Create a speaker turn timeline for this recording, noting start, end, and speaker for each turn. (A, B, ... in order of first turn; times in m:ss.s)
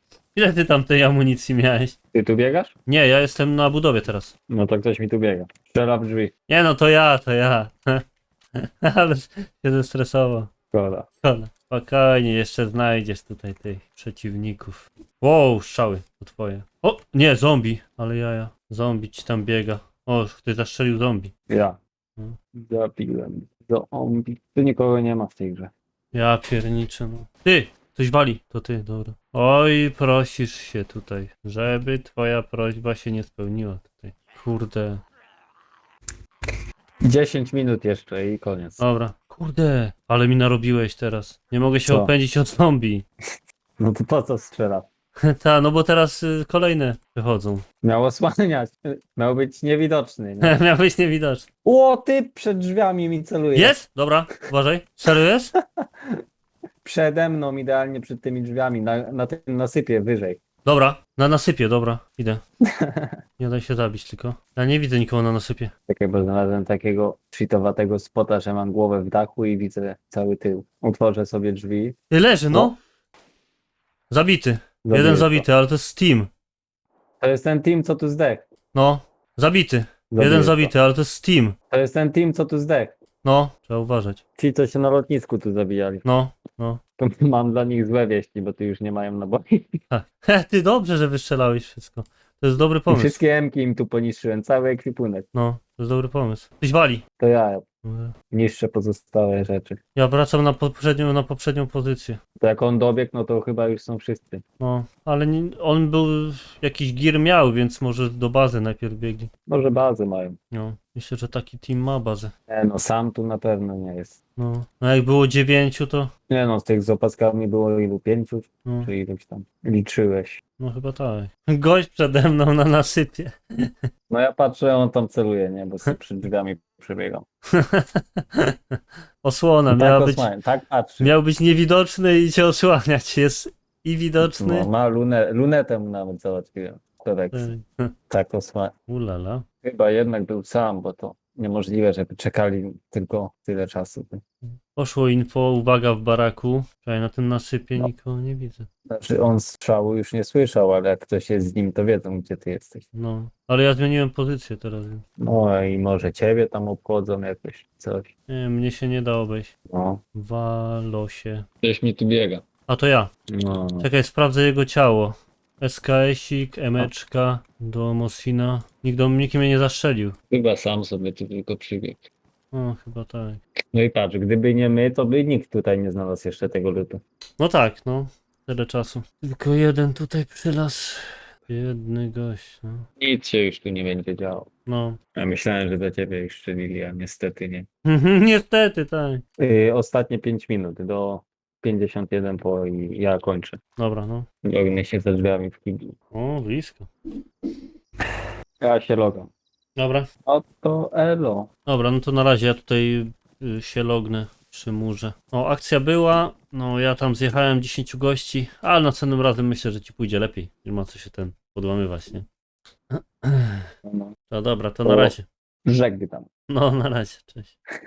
0:00.4-0:01.9 A
0:02.1-0:02.7 B
0:02.9-0:04.3 A
0:04.5-0:06.3 B
0:06.5-0:08.0 A
0:08.6-0:10.5 A
0:10.7-0:11.1 B
0:11.2-0:21.3 A
0:21.5-0:21.8 B
0:22.5-0:25.7 B
0:26.1-0:35.0 A
0:37.0-0:38.8 B
0:38.8-0:43.0 A
0:41.9-0:42.1 B
0:43.8-0:44.9 B
0:45.3-0:47.6 A
0:47.8-0:50.5 B
0:50.4-0:51.5 A
0:51.6-0:53.8 B
0:53.6-0:55.5 A
0:55.8-0:56.1 B
0:56.8-1:00.4 B
1:00.6-1:02.4 A
1:02.8-1:03.2 B
1:03.4-1:05.7 A
1:05.9-1:12.0 B
1:12.1-1:12.8 A
1:14.1-1:16.3 A
1:14.8-1:15.4 B
1:17.2-1:18.4 B
1:18.7-1:21.6 A
1:20.1-1:20.7 B
1:21.7-1:22.9 B
1:23.2-1:24.2 A
1:24.4-1:26.0 B
1:26.0-1:26.8 A
1:27.0-1:29.7 B
1:29.9-1:33.2 A
1:32.9-1:35.3 B
1:35.3-1:37.0 A
1:37.2-1:37.6 B
1:37.8-1:38.2 A
1:38.3-1:39.8 B
1:39.9-1:42.2 A
1:42.4-1:44.4 B
1:44.6-1:49.3 A
1:49.5-1:50.4 B
1:50.5-1:52.3 A
1:52.5-1:54.2 B
1:54.4-1:56.1 A
1:56.3-2:00.4 B
2:00.6-2:03.7 A
2:04.1-2:07.2 B
2:07.6-2:10.3 A
2:09.7-2:11.1 B
2:11.0-2:14.7 A
2:14.2-2:17.5 B
2:17.3-2:17.9 A
2:18.1-2:18.7 B
2:18.9-2:19.4 A
2:19.6-2:24.2 B
2:24.7-2:28.7 A
2:28.9-2:32.8 B
2:32.9-2:35.0 A
2:35.2-2:38.1 B
2:38.3-2:39.5 A
2:39.7-2:40.0 B
2:40.2-2:41.5 A
2:41.6-2:42.4 B
2:42.7-2:43.1 A
2:43.3-2:43.9 B
2:43.8-2:50.1 A
2:50.3-2:52.0 B
2:52.5-2:53.4 A
2:53.7-2:57.0 B
2:57.4-3:02.9 A
3:03.0-3:04.5 B
3:04.7-3:05.0 A
3:05.2-3:07.6 B
3:07.8-3:09.2 A
3:09.4-3:13.6 B
3:13.8-3:14.2 A
3:14.4-3:16.0 B
3:16.1-3:16.9 A
3:18.6-3:19.3 B
3:19.8-3:20.1 A
3:20.2-3:21.5 B
3:21.6-3:32.2 A
3:32.9-3:33.7 A
3:33.8-3:34.1 B
3:34.3-3:35.2 A
3:34.8-3:35.1 B
3:35.6-3:36.3 B
3:36.5-3:37.5 A